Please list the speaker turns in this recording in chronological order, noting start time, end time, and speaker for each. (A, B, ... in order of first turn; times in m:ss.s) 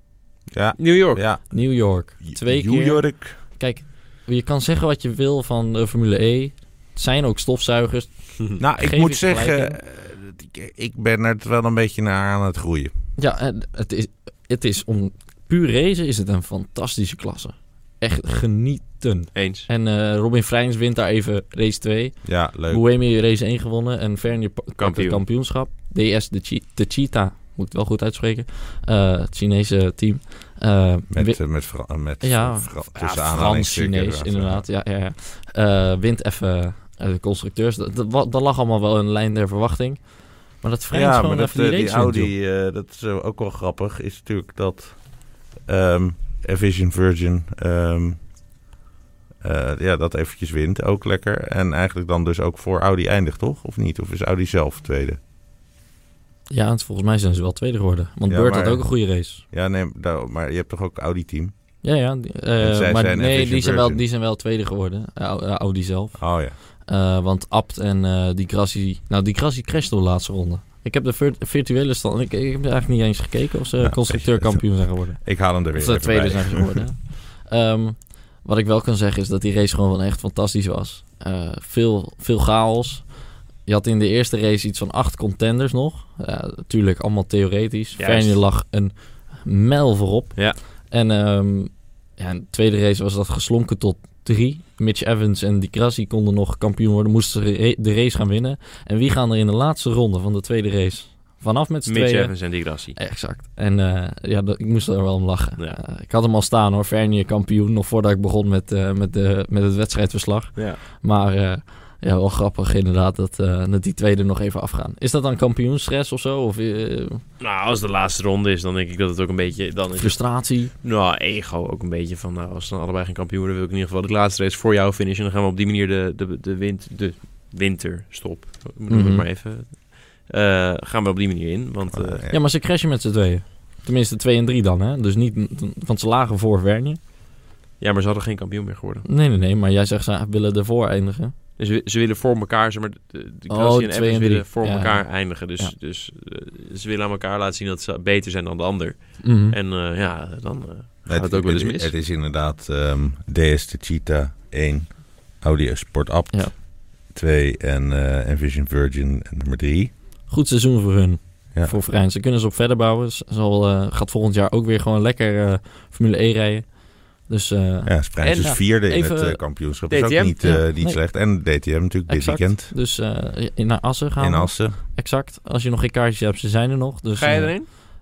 0:00.5-0:03.4 A
0:00.8-0:01.2 B
0:01.5-0:09.8 C
0:08.6-0:12.9 A
0:13.2-0:42.3 C
0:19.3-0:19.7 B
0:22.2-0:22.8 A
0:24.8-0:25.2 B
0:31.1-0:34.6 A
0:40.9-0:48.2 A
0:49.4-0:55.2 A
0:56.5-0:59.4 C
0:58.3-1:01.5 A
1:01.8-1:57.2 C
1:02.6-1:04.0 A
1:06.2-1:06.6 A
1:13.8-1:16.8 A
1:28.0-1:28.4 B
1:41.9-1:43.0 B
1:50.6-1:50.8 B
1:57.4-2:12.2 B
2:00.0-2:00.7 C
2:08.9-2:09.2 C
2:11.9-2:12.4 A
2:12.3-2:17.0 C
2:17.8-2:19.1 B
2:19.0-2:21.3 C
2:21.6-2:31.9 B
2:23.5-2:25.7 C
2:29.2-2:29.6 C
2:31.1-2:39.9 A
2:40.3-2:49.5 C
2:47.9-2:52.7 A
2:48.2-2:48.6 B
2:49.9-2:50.5 B
2:50.4-2:51.0 C
2:52.1-2:57.8 C
2:54.2-2:54.8 A
2:57.2-2:57.7 B